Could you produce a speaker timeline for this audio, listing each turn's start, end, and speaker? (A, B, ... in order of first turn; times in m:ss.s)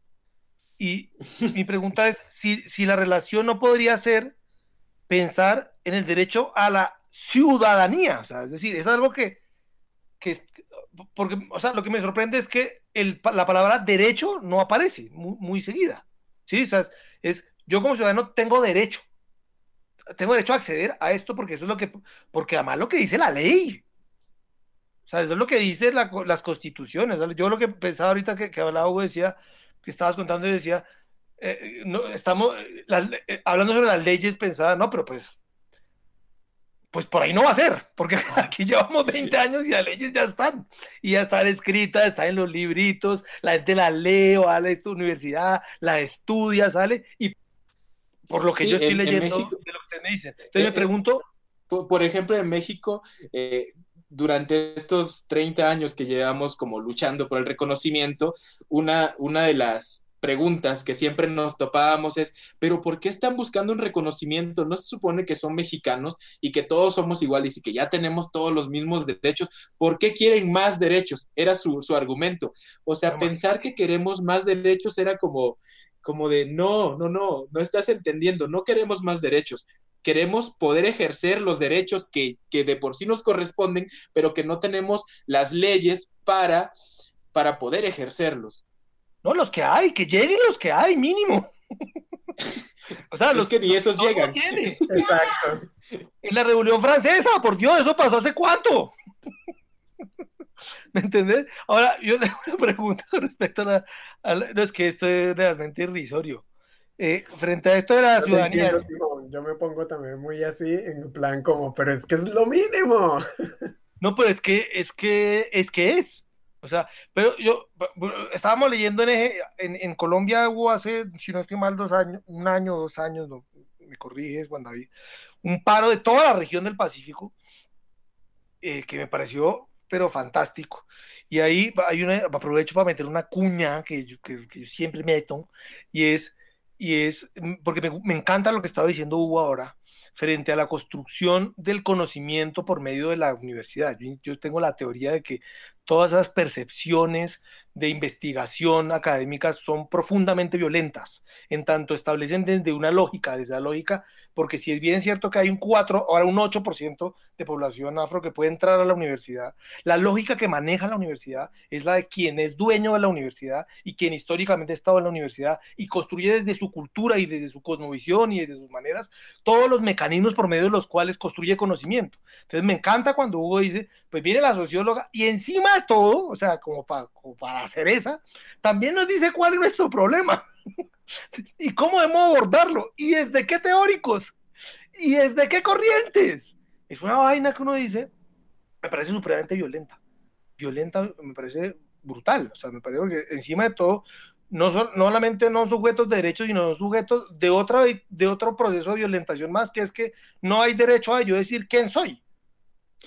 0:00.8-0:04.3 A
0:05.1-0:09.4 A
0:10.2-0:10.6 A
0:11.1-0:19.0 A
0:20.1-0:23.8 A
0:25.1-0:30.8 A
0:31.4-0:35.4 A
0:36.9-0:47.3 A
0:48.3-0:51.2 A
0:48.6-0:49.6 B
0:50.5-0:50.9 B
0:51.7-1:26.7 B
1:13.1-1:13.4 A
1:27.3-1:28.6 B
1:29.2-1:31.5 A
1:33.1-1:35.0 A
1:33.3-1:35.0 B
1:34.9-1:35.6 C
1:36.2-1:38.9 A
1:40.9-1:46.4 A
1:47.0-1:48.8 A
1:48.2-1:53.2 C
1:54.0-2:04.9 A
2:05.4-2:07.3 A
2:08.6-3:00.5 A
3:01.3-3:04.4 A
3:04.9-3:08.1 A
3:08.8-3:10.0 A
3:10.6-3:22.2 A